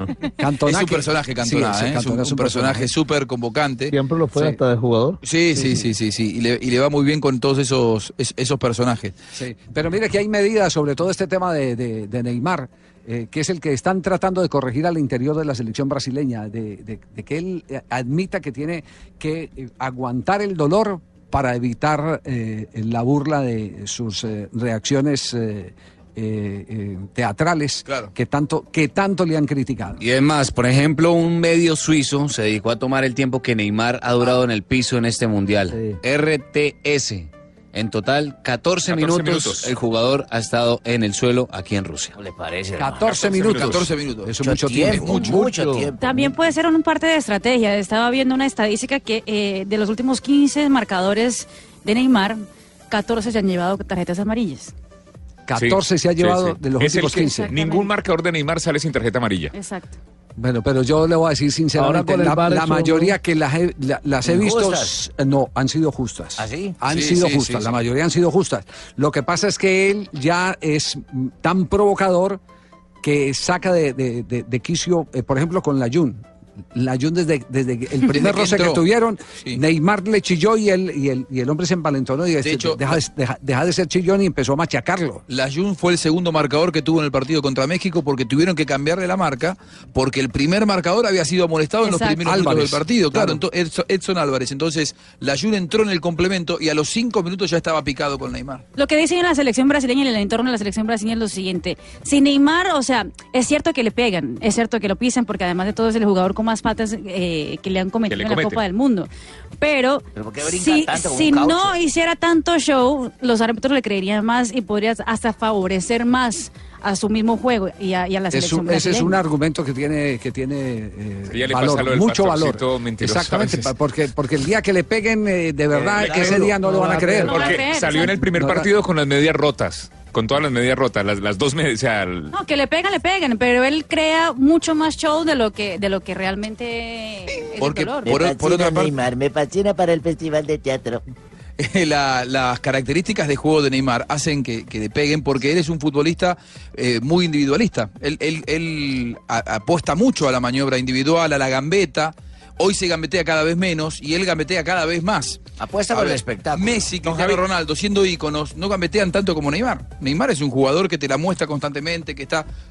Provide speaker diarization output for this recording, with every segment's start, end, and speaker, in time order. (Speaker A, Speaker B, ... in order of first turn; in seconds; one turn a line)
Speaker A: 0.4-2.9
Speaker B: 0.7-4.5
Speaker C: 3.9-5.2
Speaker B: 5.2-9.1
Speaker A: 5.5-5.9
Speaker A: 9.3-30.0
Speaker D: 30.0-42.2
Speaker C: 35.7-36.0
Speaker E: 38.9-39.7
Speaker F: 42.2-43.0
Speaker A: 42.8-45.9
Speaker B: 43.0-45.3
Speaker F: 44.4-46.3
Speaker C: 45.1-45.9
Speaker G: 46.0-54.7
Speaker A: 55.5-57.5
Speaker E: 55.6-59.5
Speaker G: 57.2-57.9
Speaker G: 59.5-60.0
Speaker A: 60.4-72.4
Speaker C: 61.7-63.1
Speaker F: 64.3-64.8
Speaker F: 66.4-66.7
Speaker B: 66.9-67.7
Speaker A: 73.0-76.2
Speaker A: 76.7-85.2
Speaker B: 78.1-78.8
Speaker B: 82.4-83.0
Speaker B: 85.3-98.6
Speaker G: 91.8-92.2
Speaker A: 92.2-93.4
Speaker G: 98.8-109.1
Speaker E: 108.1-108.6
Speaker G: 109.6-119.2
Speaker F: 110.1-111.8
Speaker A: 118.3-128.7
Speaker E: 121.3-123.7
Speaker E: 126.0-126.5
Speaker C: 126.6-127.3
Speaker E: 127.2-132.3
Speaker G: 127.2-128.1
Speaker G: 132.3-138.1
Speaker B: 137.6-138.9
Speaker F: 138.0-141.0
Speaker B: 141.6-162.5
Speaker F: 155.6-157.4